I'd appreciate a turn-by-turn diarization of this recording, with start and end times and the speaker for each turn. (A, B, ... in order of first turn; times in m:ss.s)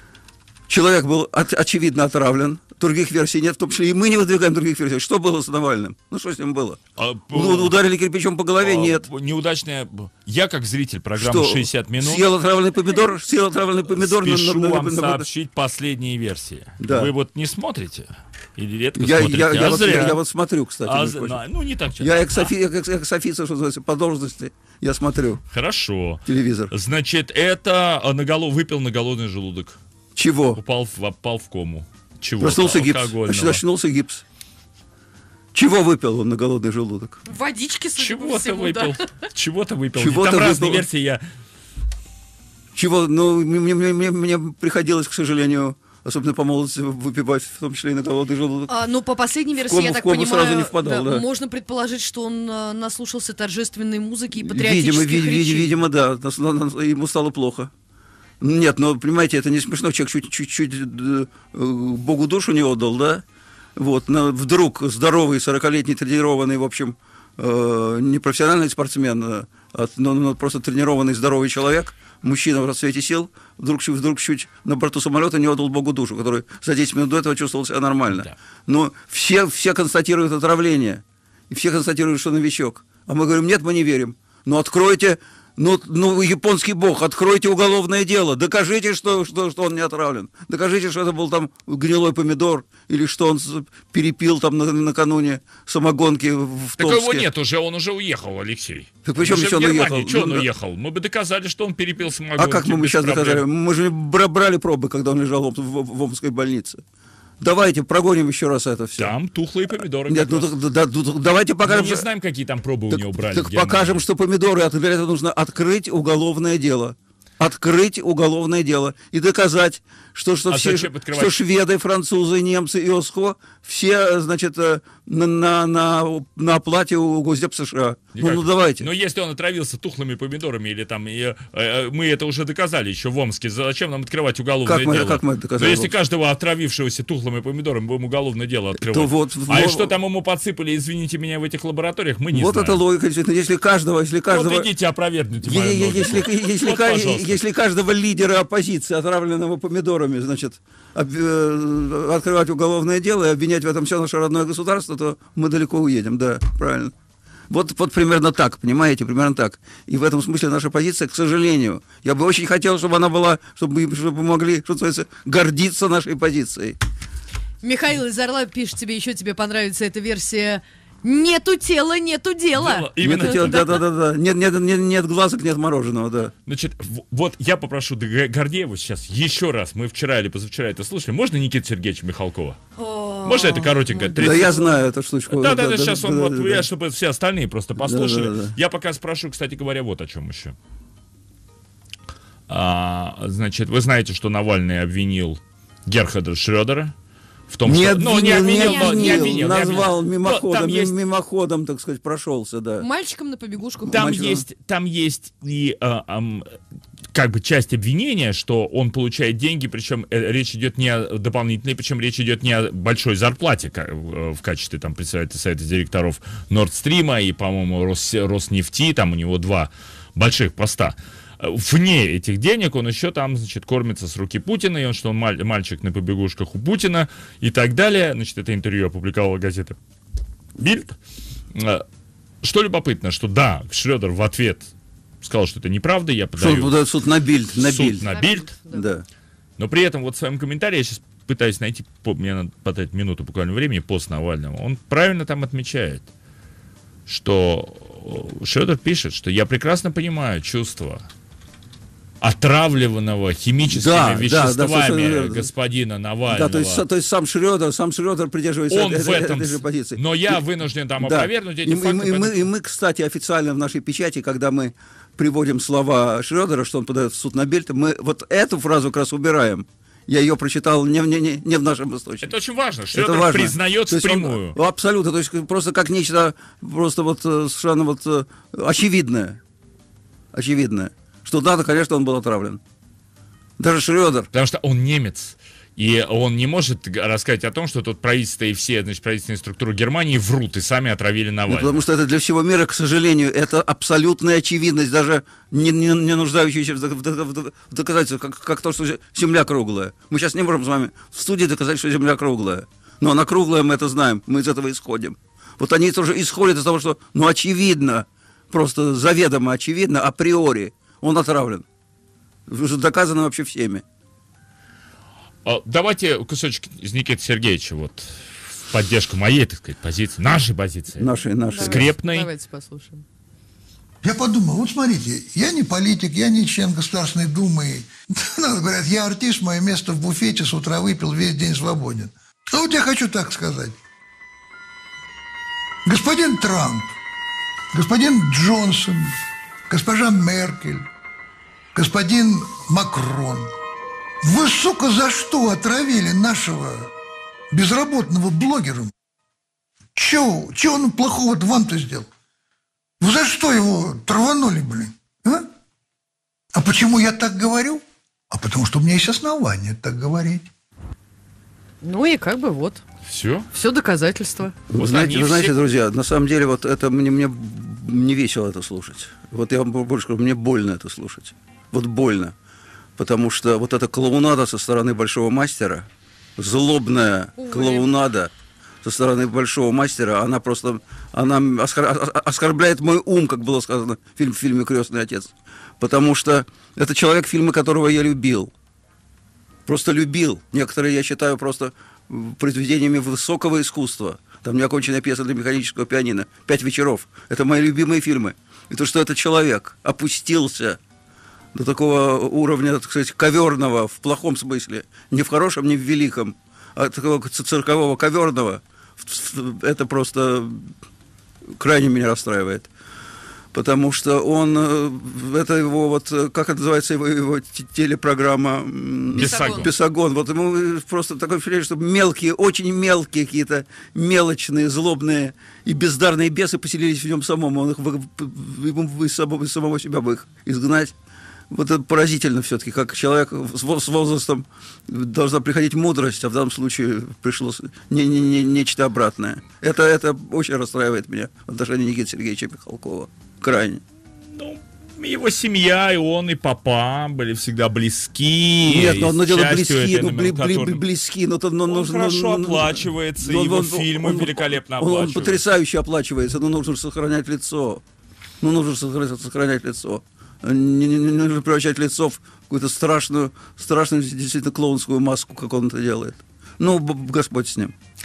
0:00.7-0:06.8 A
0:07.0-0:07.8 B
0:07.3-0:09.1 A
0:08.6-0:12.3 B
0:11.2-0:15.3 A
0:13.9-0:20.2 B
0:16.8-0:17.1 A
0:19.0-0:21.4 A
0:20.8-0:22.5 B
0:22.0-0:25.4 A
0:25.5-0:29.8 B
0:26.3-0:26.7 A
0:30.2-0:30.6 A
0:30.6-0:33.6 B
0:32.4-0:34.2 A
0:35.5-0:37.2 A
0:37.3-0:39.1 C
0:38.0-0:41.2 B
0:40.0-0:40.9 A
0:42.8-0:48.7 A
0:48.7-0:55.7 C
0:49.7-0:51.2 A
0:54.3-0:57.7 A
0:58.4-1:03.2 A
1:03.8-1:37.3 A
1:36.8-1:43.4 B
1:39.0-1:40.5 A
1:42.4-1:46.8 A
1:47.4-1:49.1 A
1:49.0-1:50.5 B
1:50.1-1:52.1 A
1:51.6-1:54.0 B
1:52.9-2:08.9 A
2:00.5-2:01.4 B
2:08.2-2:22.8 B
2:14.6-2:15.9 A
2:18.8-2:20.0 A
2:22.3-2:24.7 A
2:24.3-2:27.4 B
2:25.4-2:36.9 A
2:37.5-2:46.8 A
2:47.6-2:53.7 C
2:52.5-2:53.8 B
2:53.0-2:56.3 A
2:56.5-3:02.6 B
3:02.8-3:04.8 C
3:03.2-3:04.6 B
3:04.2-3:06.7 A
3:05.3-3:10.6 B
3:07.8-3:08.6 A
3:12.5-3:16.9 B
3:17.5-3:20.9 B
3:17.6-3:22.9 A
3:18.1-3:19.9 C
3:22.8-3:24.3 C
3:23.8-3:24.4 A
3:23.9-3:26.6 B
3:27.1-3:49.8 B
3:50.6-3:51.0 B
3:51.5-3:51.8 B
3:52.4-3:54.7 B
3:55.2-3:56.8 B
3:56.4-3:58.1 A
3:57.5-3:58.5 B
3:58.0-3:58.9 C
3:58.7-3:59.0 A
3:59.6-4:06.1 B
4:07.1-4:11.1 B
4:12.2-4:16.8 B
4:13.7-4:15.5 A
4:16.3-4:20.4 A
4:18.7-4:22.5 B
4:21.0-4:32.3 A
4:32.2-4:34.6 B
4:32.9-4:39.4 A
4:40.3-4:42.6 A
4:43.6-4:44.3 A
4:44.3-4:51.8 B
4:51.5-5:11.6 A
5:12.5-5:13.8 A
5:15.4-5:21.1 B
5:21.0-5:21.9 A
5:21.5-5:23.0 C
5:21.6-5:22.3 B
5:24.0-5:33.8 D
5:35.8-5:36.9 D
5:37.7-5:39.2 D
5:39.7-5:40.9 D
5:41.7-5:43.5 D
5:44.2-5:46.9 D
5:47.5-5:48.9 D
5:50.0-5:52.1 D
5:53.0-5:55.5 D
5:56.6-6:00.5 D
6:01.8-6:02.8 C
6:03.1-6:03.5 B
6:03.5-6:04.6 C
6:04.7-6:12.4 A
6:04.8-6:05.6 B
6:13.0-6:18.3 A
6:17.4-6:17.9 C
6:18.8-6:28.5 A
6:29.7-6:40.8 A
6:41.5-6:50.7 A
6:51.6-6:52.7 A
6:53.5-7:10.9 A
6:59.2-6:59.7 B
6:59.2-6:59.7 C
7:11.5-7:23.8 A
7:24.3-7:30.8 B
7:28.7-7:37.8 A
7:31.7-7:35.4 B
7:38.4-7:47.7 A